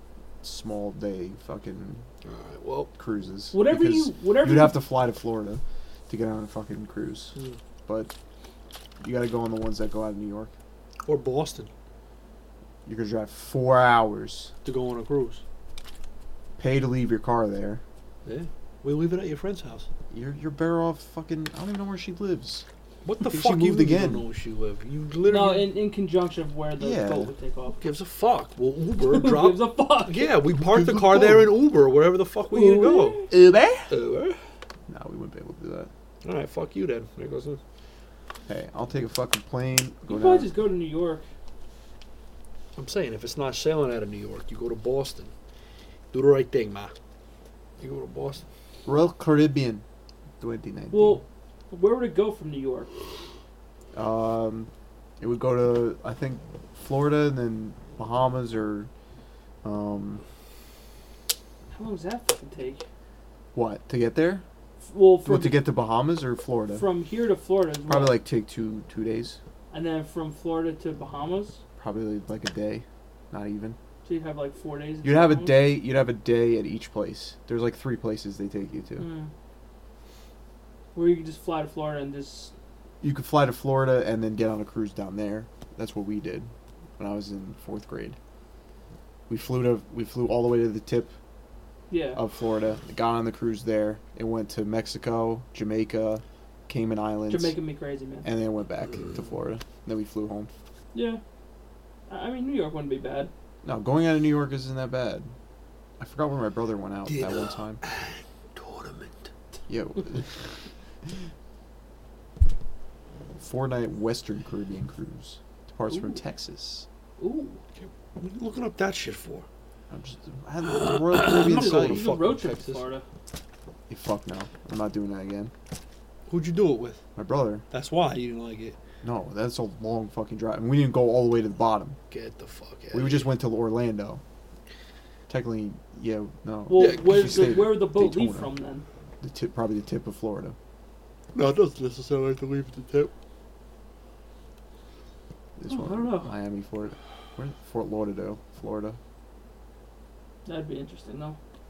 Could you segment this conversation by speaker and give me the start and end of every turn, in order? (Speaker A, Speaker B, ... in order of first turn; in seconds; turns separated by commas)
Speaker A: 0.4-2.0, Speaker B: 2.2-2.9, Speaker A: 3.0-8.1, Speaker C: 3.5-4.8, Speaker A: 9.0-10.5, Speaker B: 11.1-11.7, Speaker A: 12.8-14.5, Speaker B: 14.6-15.4, Speaker A: 16.6-17.8, Speaker B: 18.2-19.9, Speaker A: 20.1-22.6, Speaker B: 23.0-25.7, Speaker A: 23.2-24.2, Speaker C: 25.3-27.8, Speaker A: 26.8-27.3, Speaker B: 27.8-33.3, Speaker C: 29.1-30.3, Speaker A: 30.6-31.6, Speaker C: 32.5-33.3, Speaker A: 33.3-33.9, Speaker B: 33.9-34.4, Speaker A: 34.9-35.9, Speaker B: 36.2-37.6, Speaker A: 38.5-40.5, Speaker C: 40.1-41.2, Speaker B: 42.8-45.3, Speaker B: 46.1-46.9, Speaker B: 47.8-48.4, Speaker A: 48.9-49.8, Speaker A: 50.4-51.2, Speaker C: 50.9-52.9, Speaker A: 53.9-54.7, Speaker A: 55.2-58.9, Speaker A: 59.6-60.2, Speaker C: 61.7-62.8, Speaker A: 63.5-64.4, Speaker C: 64.8-65.7, Speaker A: 65.2-66.9, Speaker C: 66.8-68.2, Speaker A: 67.9-69.4, Speaker C: 69.7-71.6, Speaker A: 71.8-73.8, Speaker C: 74.0-75.8, Speaker A: 75.0-79.1, Speaker C: 79.0-79.3, Speaker C: 81.0-82.5, Speaker A: 83.0-88.2, Speaker A: 89.3-91.1, Speaker C: 91.9-92.2, Speaker A: 92.2-97.6, Speaker C: 97.3-98.3, Speaker A: 98.2-100.5, Speaker C: 100.9-101.2, Speaker C: 102.1-103.3, Speaker A: 103.6-105.3, Speaker A: 106.0-107.8, Speaker B: 107.1-109.3, Speaker A: 109.7-110.5, Speaker A: 113.4-116.9, Speaker C: 115.9-116.2, Speaker C: 117.2-117.6, Speaker B: 117.8-119.5, Speaker A: 119.9-122.1, Speaker B: 120.6-122.9, Speaker C: 121.3-123.0, Speaker A: 123.9-125.5, Speaker B: 126.3-127.0, Speaker A: 127.2-127.6, Speaker B: 127.7-128.8, Speaker A: 129.0-132.0, Speaker B: 132.1-133.3, Speaker A: 132.9-134.2, Speaker A: 135.3-138.5, Speaker C: 136.7-138.8, Speaker B: 136.8-137.7, Speaker A: 139.2-140.6, Speaker B: 141.3-143.1, Speaker A: 145.6-149.0, Speaker C: 145.7-146.3, Speaker C: 150.5-151.4